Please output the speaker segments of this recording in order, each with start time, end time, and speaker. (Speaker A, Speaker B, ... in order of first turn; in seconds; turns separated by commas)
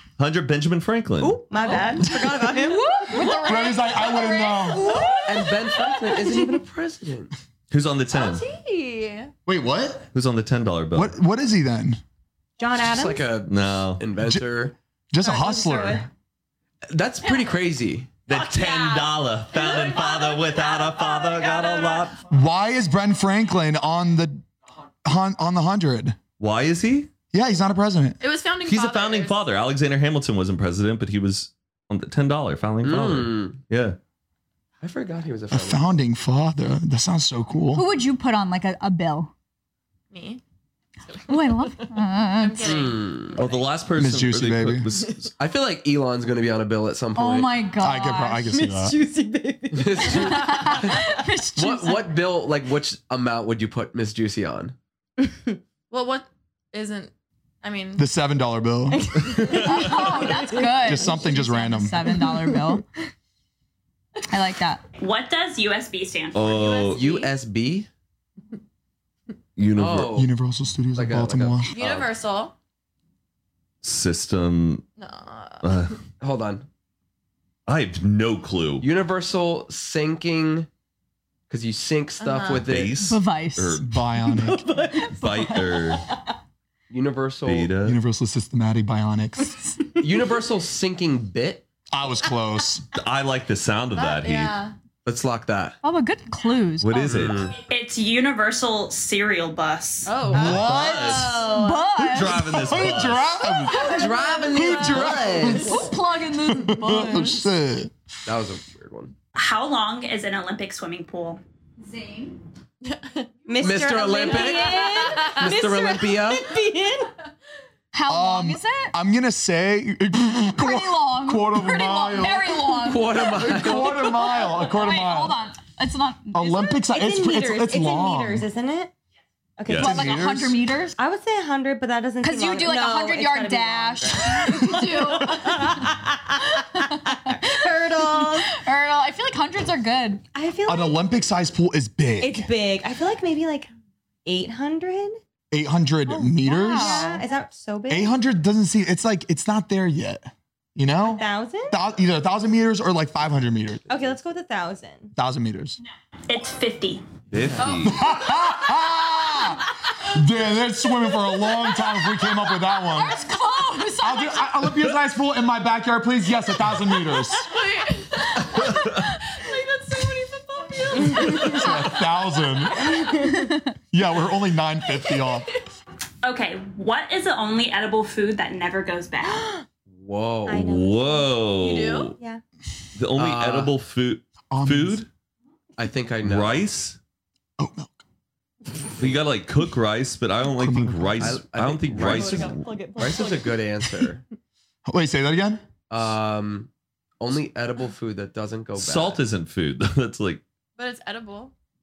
Speaker A: 0.2-1.4, Speaker B: 1.2-6.6, Speaker C: 2.5-4.9, Speaker D: 3.4-4.9, Speaker E: 5.2-7.3, Speaker A: 7.7-8.4, Speaker F: 8.1-9.3, Speaker D: 9.4-10.1, Speaker A: 10.1-11.2, Speaker D: 10.9-12.0, Speaker B: 12.6-13.4, Speaker E: 12.8-14.7, Speaker A: 13.4-14.0, Speaker D: 14.2-14.5, Speaker D: 15.1-16.1, Speaker B: 15.2-16.0, Speaker E: 16.9-18.1, Speaker F: 17.2-17.6, Speaker A: 18.3-22.2, Speaker F: 18.3-22.1, Speaker D: 22.3-24.4, Speaker D: 25.0-26.2, Speaker A: 26.4-27.1, Speaker D: 27.3-28.2, Speaker F: 28.2-29.4, Speaker A: 28.6-34.0, Speaker E: 32.8-33.6, Speaker E: 34.8-35.9, Speaker D: 35.5-37.9, Speaker C: 37.7-39.3, Speaker F: 40.1-40.4, Speaker F: 41.1-43.8, Speaker C: 41.3-42.9, Speaker E: 42.6-43.4, Speaker A: 43.4-45.3, Speaker D: 43.9-44.9, Speaker E: 45.4-47.6, Speaker C: 47.1-48.4, Speaker D: 47.8-49.0, Speaker B: 48.4-50.7, Speaker E: 49.7-54.7, Speaker C: 50.2-52.2, Speaker B: 55.2-55.5, Speaker F: 55.9-58.1, Speaker D: 58.0-59.6, Speaker B: 58.9-61.2, Speaker C: 59.6-62.8, Speaker D: 60.8-62.1, Speaker B: 62.2-62.8, Speaker C: 64.3-64.8, Speaker G: 65.0-66.6, Speaker A: 66.3-67.0, Speaker F: 66.4-67.3, Speaker E: 66.9-67.9, Speaker A: 69.6-70.2, Speaker E: 69.8-70.3, Speaker D: 70.1-71.7, Speaker E: 70.9-72.1, Speaker F: 71.7-72.5, Speaker A: 73.8-74.8, Speaker F: 75.0-75.9, Speaker A: 75.6-76.0, Speaker E: 76.2-76.7, Speaker A: 77.7-78.8, Speaker E: 78.8-80.7, Speaker E: 81.5-83.0, Speaker F: 82.2-82.7, Speaker A: 82.5-83.9, Speaker C: 83.0-84.0, Speaker D: 83.8-84.7, Speaker B: 84.2-86.2, Speaker C: 84.7-85.8, Speaker A: 85.1-86.0, Speaker E: 86.9-87.7, Speaker A: 87.4-88.0, Speaker D: 87.8-89.5, Speaker E: 90.0-91.6, Speaker B: 90.1-90.4, Speaker D: 91.9-92.8, Speaker A: 92.9-94.6, Speaker F: 93.9-94.7, Speaker E: 95.0-95.8, Speaker C: 95.8-97.3, Speaker A: 96.8-97.5, Speaker E: 97.1-97.6, Speaker G: 97.7-100.2, Speaker F: 100.0-100.6, Speaker D: 100.3-101.1, Speaker A: 100.3-103.3, Speaker B: 100.3-102.2, Speaker C: 101.2-104.2, Speaker D: 102.5-103.9, Speaker B: 103.7-105.8, Speaker E: 103.8-105.7, Speaker D: 104.5-107.9, Speaker C: 105.4-107.4, Speaker E: 108.2-109.1, Speaker G: 109.3-111.4, Speaker C: 111.8-112.4, Speaker F: 112.8-113.3, Speaker B: 113.5-117.1, Speaker E: 113.6-114.8, Speaker F: 114.1-115.5, Speaker C: 114.1-115.3, Speaker E: 115.4-116.5, Speaker C: 117.9-118.9, Speaker D: 118.1-125.4, Speaker C: 120.5-126.8, Speaker E: 122.8-124.0, Speaker D: 126.3-128.5, Speaker B: 126.8-128.9, Speaker B: 129.6-130.2, Speaker A: 129.7-130.0, Speaker C: 129.8-131.0, Speaker D: 129.8-130.6, Speaker B: 131.0-138.5, Speaker C: 132.2-135.9, Speaker D: 134.4-135.5, Speaker C: 136.5-140.2, Speaker B: 140.3-141.1, Speaker D: 140.7-142.5, Speaker B: 142.2-143.7, Speaker B: 144.2-145.2, Speaker D: 145.5-147.1, Speaker B: 146.2-148.1, Speaker C: 146.4-147.2, Speaker D: 147.9-153.8, Speaker B: 151.1-151.8, Speaker B: 153.9-155.1, Speaker D: 155.1-155.8, Speaker G: 156.3-157.0, Speaker A: 157.3-158.1, Speaker F: 157.6-158.3, Speaker D: 157.8-163.3, Speaker C: 162.9-164.5, Speaker D: 164.0-167.5, Speaker F: 167.2-173.0, Speaker D: 171.5-172.9, Speaker B: 172.8-173.5, Speaker D: 173.9-175.5, Speaker F: 174.9-175.4, Speaker G: 176.2-179.5, Speaker B: 179.3-179.6, Speaker E: 179.9-180.7, Speaker B: 180.5-181.4, Speaker A: 180.5-182.1, Speaker F: 181.6-182.1, Speaker A: 182.9-185.1, Speaker E: 183.2-183.7, Speaker D: 184.5-185.0, Speaker E: 185.8-186.6, Speaker A: 186.2-187.0, Speaker D: 187.6-188.0, Speaker A: 189.0-192.7, Speaker D: 190.4-191.4, Speaker E: 191.2-194.2, Speaker B: 192.0-193.8, Speaker D: 194.8-195.6, Speaker E: 195.9-199.2, Speaker A: 198.8-200.4, Speaker F: 200.8-201.5